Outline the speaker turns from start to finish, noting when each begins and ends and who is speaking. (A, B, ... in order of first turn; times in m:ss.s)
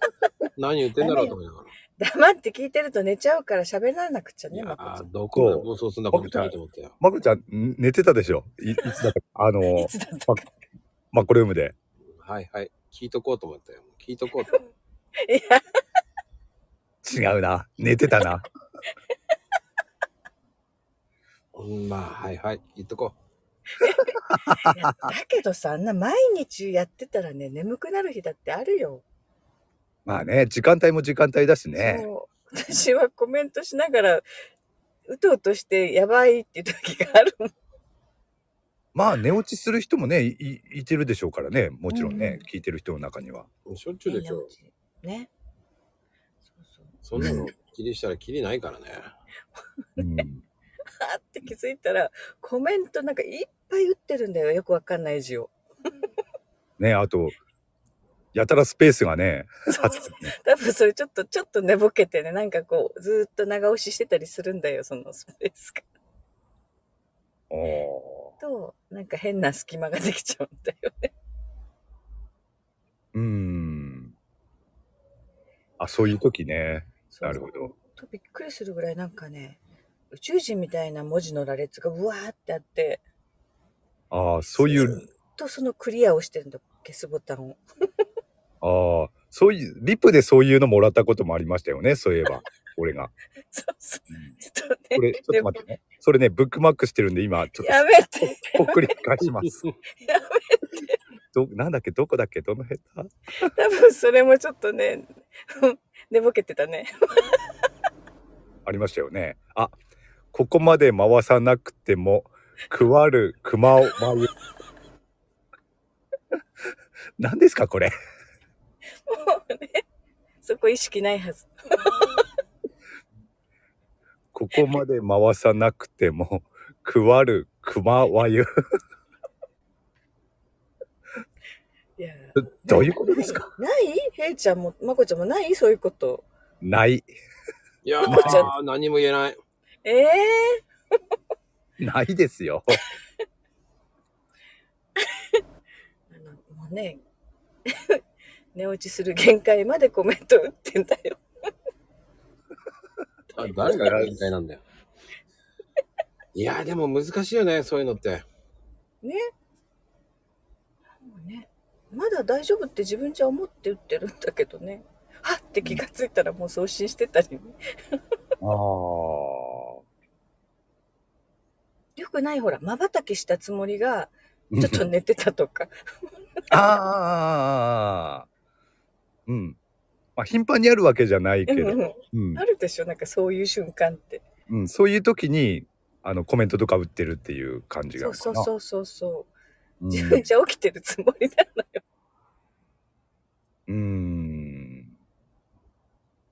0:00.6-0:01.7 A
0:01.0-0:01.4 B
0:02.0-0:05.1 B
0:04.5-0:07.0 A
0:05.3-0:10.4 C
0:09.8-0:10.5 B
0:11.1-0:11.8 C
0:12.2-0:14.5 A
0:15.2-0:15.6 B
0:17.0-0:18.5 C
0:21.5-0:23.2 A
0:23.8-0:29.0 B
0:24.3-0:24.9 C
0:30.1-0:32.1 C
0:31.8-0:34.3 B
0:35.1-0:37.5 B
0:38.9-0:43.5 C
0:41.9-0:42.4 B
0:43.7-0:44.5 A
0:44.1-0:45.3 B
0:46.6-0:47.4 B
0:47.0-0:49.1 A
0:47.2-0:47.5 C
0:50.0-0:50.4 C
0:51.0-0:55.5 B
0:56.8-0:57.4 C
0:58.3-1:00.4 C
0:59.7-1:05.8 B
1:07.5-1:08.3 C
1:08.4-1:11.1 B
1:13.1-1:14.1 C
1:15.8-1:17.7 C
1:17.1-1:19.6 B
1:20.1-1:23.0 B
1:24.1-1:25.0 C
1:24.6-1:27.6 B
1:28.6-1:33.1 C
1:33.5-1:35.6 B
1:35.0-1:39.6 C
1:37.6-1:38.9 B
1:39.5-1:39.8 A
1:40.0-1:41.0 B
1:41.3-1:43.5 C
1:43.5-1:47.4 B
1:48.7-1:49.8 C
1:50.3-1:54.3 C
1:57.2-1:57.9 C
1:59.1-1:59.8 B
2:00.4-2:02.2 B
2:04.3-2:08.5 C
2:12.0-2:16.3 B
2:12.4-2:13.5 C
2:16.6-2:17.1 C
2:17.8-2:19.4 A
2:18.0-2:18.5 C
2:18.0-2:18.5 B
2:19.8-2:20.6 B
2:21.8-2:22.8 C
2:26.1-2:27.0 B
2:27.7-2:28.0 B
2:28.5-2:31.2 B
2:33.4-2:34.6 A
2:33.6-2:34.1 C
2:36.4-2:38.3 A
2:41.0-2:48.0 B
2:48.4-2:49.8 C
2:52.0-2:55.7 B
2:54.5-2:54.8 C
2:56.5-2:58.3 C
2:59.3-2:59.6 C
3:00.2-3:02.4 C
3:01.5-3:04.2 B
3:04.5-3:08.5 C
3:08.0-3:09.3 B
3:09.8-3:10.2 C
3:09.9-3:11.8 B
3:13.7-3:14.9 C